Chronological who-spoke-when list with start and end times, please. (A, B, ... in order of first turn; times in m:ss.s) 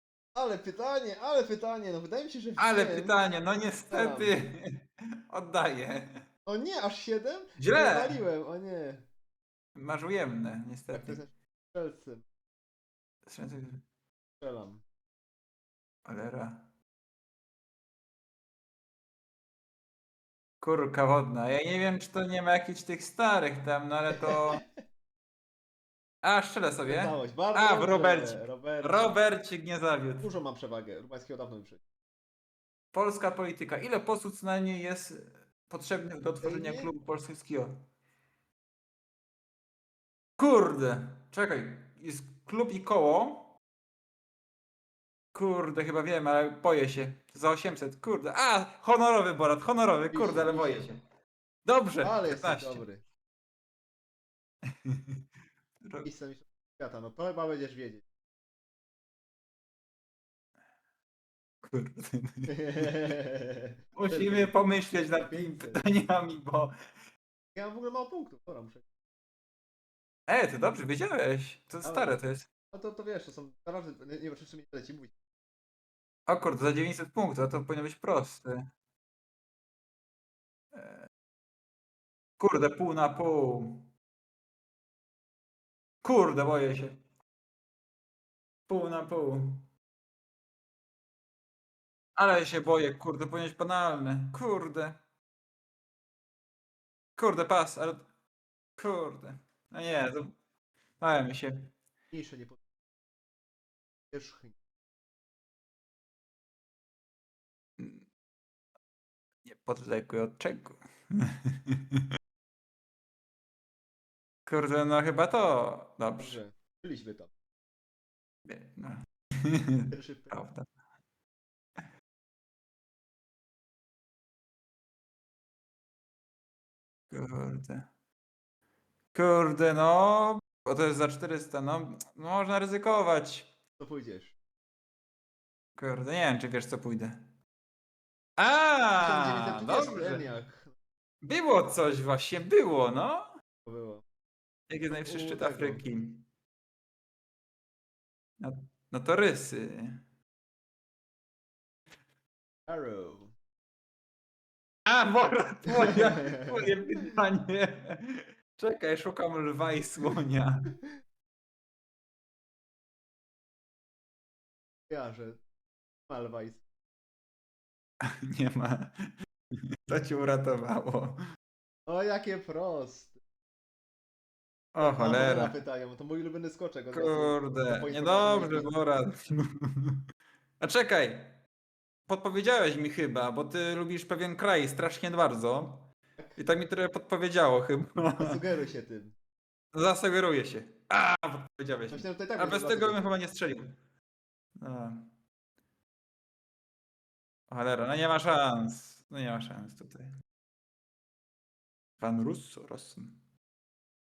0:00.4-0:03.2 A
0:02.6-0:06.2 B
0:03.9-0:04.4 A
0:06.5-0:09.1 A
0:07.6-0:08.2 B
0:09.8-0:11.2 B
0:10.9-0:12.2 A
0:13.3-0:13.8 B
0:14.4-0:14.8 A
0:16.0-0:16.7 B
0:20.6-0:24.6 B
0:26.2-0:30.3 B
0:26.9-0:29.2 A
0:30.2-0:31.8 A
0:32.9-0:37.8 B
0:36.4-0:36.9 A
0:40.4-0:43.6 B
0:45.3-0:51.0 B
0:50.1-0:50.9 A
0:51.6-0:52.8 B
0:52.0-0:53.0 A
0:54.7-0:55.2 B
0:55.8-0:56.1 B
0:56.0-0:58.0 A
1:01.6-1:03.1 B
1:02.5-1:05.9 A
1:04.0-1:06.7 B
1:07.6-1:08.8 A
1:10.3-1:12.5 B
1:11.8-1:12.2 A
1:12.7-1:15.1 A
1:16.3-1:18.6 B
1:20.7-1:21.1 B
1:22.4-1:23.9 B
1:26.0-1:27.0 B
1:28.7-1:29.7 B
1:32.2-1:35.0 B
1:37.2-1:38.1 B
1:38.8-1:40.4 B
1:41.0-1:41.7 B
1:42.1-1:42.6 A
1:44.1-1:44.6 A
1:47.8-1:48.0 B
1:49.4-1:52.0 B
1:54.5-1:56.4 B
1:56.2-1:57.3 A
1:58.5-2:00.7 B
1:59.9-2:00.4 A
2:07.1-2:07.8 B
2:09.1-2:13.5 B
2:13.8-2:14.3 A
2:15.8-2:17.2 B
2:18.4-2:20.2 B
2:19.0-2:20.7 A
2:21.2-2:23.3 B
2:23.6-2:24.0 A
2:24.7-2:26.3 B
2:24.9-2:25.8 A
2:28.4-2:30.0 B
2:32.7-2:33.4 A
2:34.9-2:40.7 B
2:35.9-2:36.6 A
2:44.9-2:45.4 A
2:46.1-2:46.6 A
2:48.3-2:49.2 B
2:49.9-2:51.2 B
2:51.9-2:53.2 A
2:54.8-2:55.6 B
2:54.8-2:58.7 A
2:56.9-3:00.0 B
3:00.6-3:01.4 B
3:02.1-3:08.4 B
3:08.2-3:09.2 A
3:09.7-3:13.8 B
3:11.9-3:13.0 A
3:14.6-3:15.1 B
3:17.5-3:20.1 B
3:22.0-3:23.2 B